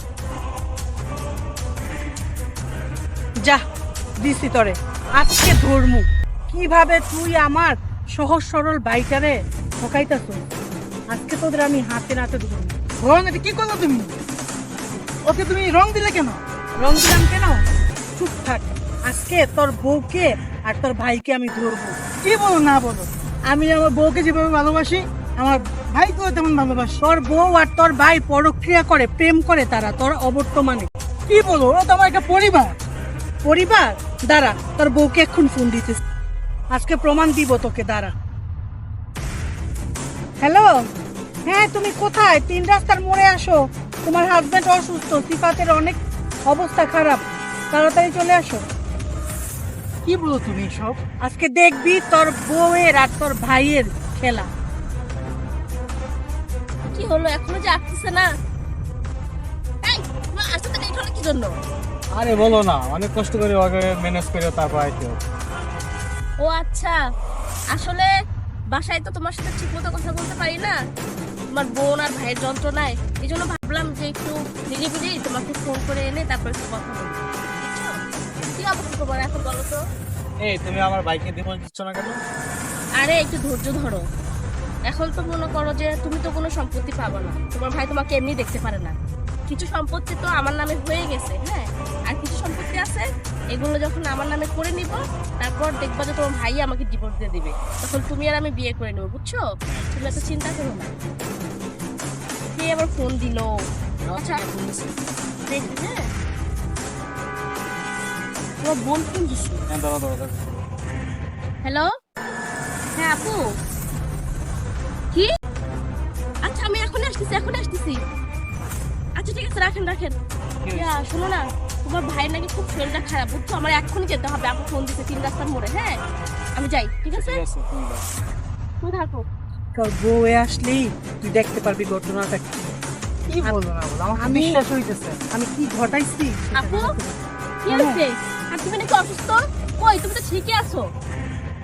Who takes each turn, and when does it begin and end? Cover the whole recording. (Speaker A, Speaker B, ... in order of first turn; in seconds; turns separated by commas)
Speaker A: 4.2-10.5, Speaker A: 11.1-12.8, Speaker B: 13.0-14.1, Speaker B: 15.2-16.4, Speaker A: 16.8-17.6, Speaker A: 18.2-22.0, Speaker B: 22.2-27.0, Speaker A: 27.0-30.9, Speaker B: 31.3-32.8, Speaker A: 33.4-36.0, Speaker A: 36.7-38.1, Speaker A: 40.4-40.7, Speaker A: 41.5-48.6, Speaker B: 50.0-51.0, Speaker A: 51.2-54.5, Speaker C: 56.9-58.3, Speaker C: 59.8-61.5, Speaker D: 62.1-65.2, Speaker C: 66.4-66.9, Speaker C: 67.7-68.1, Speaker C: 68.7-70.8, Speaker C: 71.5-77.9, Speaker C: 78.5-79.8, Speaker D: 80.4-82.2, Speaker C: 83.0-84.0, Speaker C: 84.9-89.0, Speaker C: 89.5-100.9, Speaker D: 99.7-100.1, Speaker C: 102.5-103.5, Speaker D: 104.0-104.9, Speaker C: 104.1-104.4, Speaker C: 105.5-106.0, Speaker C: 108.6-109.6, Speaker D: 109.7-110.6, Speaker C: 113.0-113.4, Speaker C: 116.4-118.0, Speaker C: 119.2-120.1, Speaker D: 120.6-121.0, Speaker C: 120.7-126.0, Speaker C: 126.6-127.4, Speaker D: 127.1-128.1, Speaker C: 128.8-129.2, Speaker A: 129.8-132.7, Speaker B: 133.3-135.2, Speaker A: 134.2-134.6, Speaker A: 135.3-137.2, Speaker C: 136.6-136.8, Speaker C: 137.6-140.8, Speaker A: 137.7-138.0